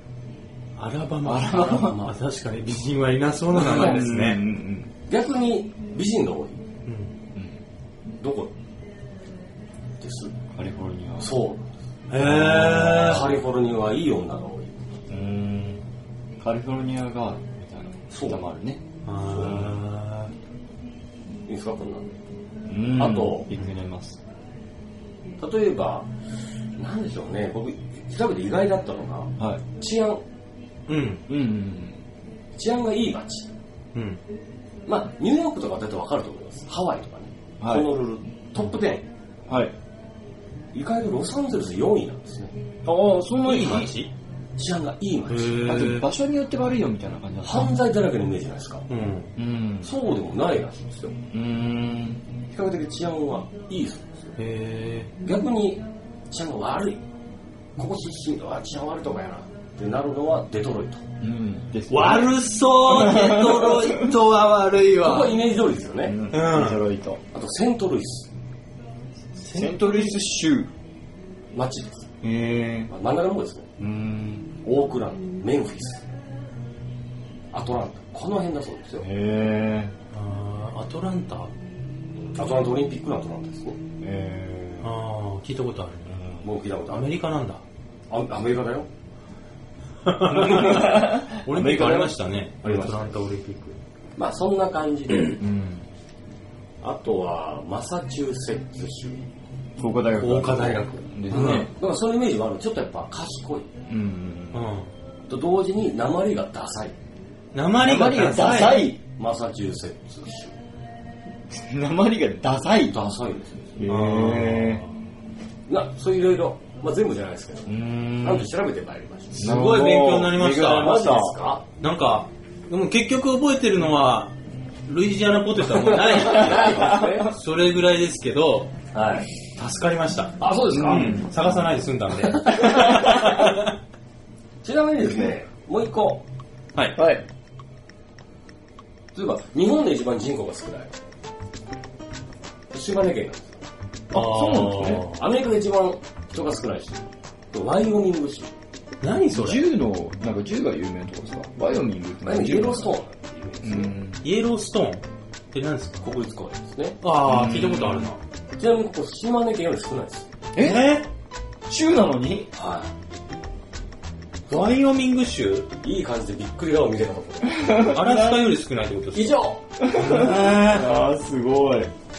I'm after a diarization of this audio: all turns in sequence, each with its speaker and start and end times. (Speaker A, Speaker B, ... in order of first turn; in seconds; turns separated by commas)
Speaker A: 0.8-4.5, Speaker B: 1.2-2.0, Speaker C: 1.7-2.1, Speaker B: 3.5-4.9, Speaker C: 3.5-4.1, Speaker C: 5.1-6.6, Speaker A: 6.8-7.1, Speaker C: 8.1-8.5, Speaker C: 10.0-10.3, Speaker B: 10.5-11.3, Speaker C: 11.2-11.7, Speaker A: 12.1-13.4, Speaker B: 12.2-13.3, Speaker C: 12.4-14.8, Speaker B: 15.1-15.8, Speaker B: 16.4-18.8, Speaker C: 18.1-18.4, Speaker A: 19.1-20.3, Speaker C: 19.2-19.6, Speaker C: 21.4-22.1, Speaker B: 22.7-24.2, Speaker C: 22.9-23.5, Speaker C: 25.4-26.1, Speaker C: 26.8-30.2, Speaker A: 30.9-31.2, Speaker B: 31.3-32.0, Speaker C: 32.5-33.5, Speaker A: 33.9-34.2, Speaker C: 34.9-39.1, Speaker B: 37.6-37.9, Speaker B: 39.5-39.7, Speaker C: 40.7-42.6, Speaker B: 42.8-43.9, Speaker A: 43.4-44.1, Speaker C: 44.6-45.8, Speaker A: 45.3-46.1, Speaker B: 45.6-47.7, Speaker C: 47.4-48.9, Speaker A: 48.9-49.3, Speaker B: 49.4-49.9, Speaker C: 49.8-51.1, Speaker B: 51.3-52.2, Speaker C: 52.5-54.3, Speaker A: 54.4-55.1, Speaker C: 55.2-57.0, Speaker C: 57.8-61.0, Speaker B: 61.2-64.0, Speaker A: 61.9-65.4, Speaker C: 65.0-66.2, Speaker B: 66.0-67.2, Speaker A: 66.3-66.8, Speaker C: 67.3-68.3, Speaker A: 69.4-70.1, Speaker B: 69.5-70.7, Speaker C: 71.5-72.1, Speaker B: 72.2-72.9, Speaker C: 72.9-73.7, Speaker B: 73.8-74.5, Speaker C: 74.6-76.1, Speaker C: 77.5-79.0, Speaker B: 79.0-79.9, Speaker A: 80.1-81.5, Speaker C: 82.2-83.8, Speaker B: 84.0-84.9, Speaker A: 84.8-86.2, Speaker B: 86.1-86.4, Speaker C: 86.4-87.2, Speaker A: 86.9-87.6, Speaker C: 88.1-88.9, Speaker A: 90.0-93.8, Speaker B: 90.3-92.1, Speaker C: 92.6-93.2, Speaker C: 94.2-95.4, Speaker B: 95.4-95.8, Speaker C: 96.8-99.2, Speaker B: 99.8-101.7, Speaker A: 100.2-101.7, Speaker C: 101.3-103.7, Speaker B: 103.9-104.7, Speaker A: 104.5-104.9, Speaker C: 105.3-106.9, Speaker A: 107.5-109.0, Speaker B: 107.8-109.0, Speaker C: 109.1-110.5, Speaker B: 111.5-113.0, Speaker C: 112.9-113.8, Speaker B: 113.8-114.8, Speaker A: 113.9-114.9, Speaker C: 115.7-119.6, Speaker B: 117.7-118.5, Speaker A: 119.3-121.1, Speaker B: 119.4-121.4, Speaker C: 120.6-121.6, Speaker A: 121.8-124.3, Speaker A: 124.8-128.7, Speaker C: 125.9-127.3, Speaker C: 128.9-129.3, Speaker A: 129.6-133.7, Speaker C: 130.4-131.2, Speaker B: 130.7-131.2, Speaker B: 132.6-133.1, Speaker C: 134.6-136.2, Speaker B: 136.9-137.2, Speaker C: 139.1-140.9, Speaker C: 142.7-143.6, Speaker B: 144.1-145.0, Speaker A: 144.1-145.2, Speaker C: 144.8-148.5, Speaker A: 149.0-149.7, Speaker B: 149.3-152.9, Speaker C: 152.2-153.9, Speaker B: 153.6-154.2, Speaker A: 154.2-156.1, Speaker C: 156.0-157.0, Speaker A: 157.0-158.2, Speaker B: 157.2-158.1, Speaker C: 158.6-160.3, Speaker B: 160.6-160.9, Speaker A: 160.6-161.1, Speaker B: 161.7-162.5, Speaker C: 162.5-162.9, Speaker A: 164.5-165.7, Speaker C: 165.8-167.9, Speaker B: 167.6-168.5, Speaker A: 167.8-169.5, Speaker C: 169.1-170.3, Speaker B: 169.8-171.9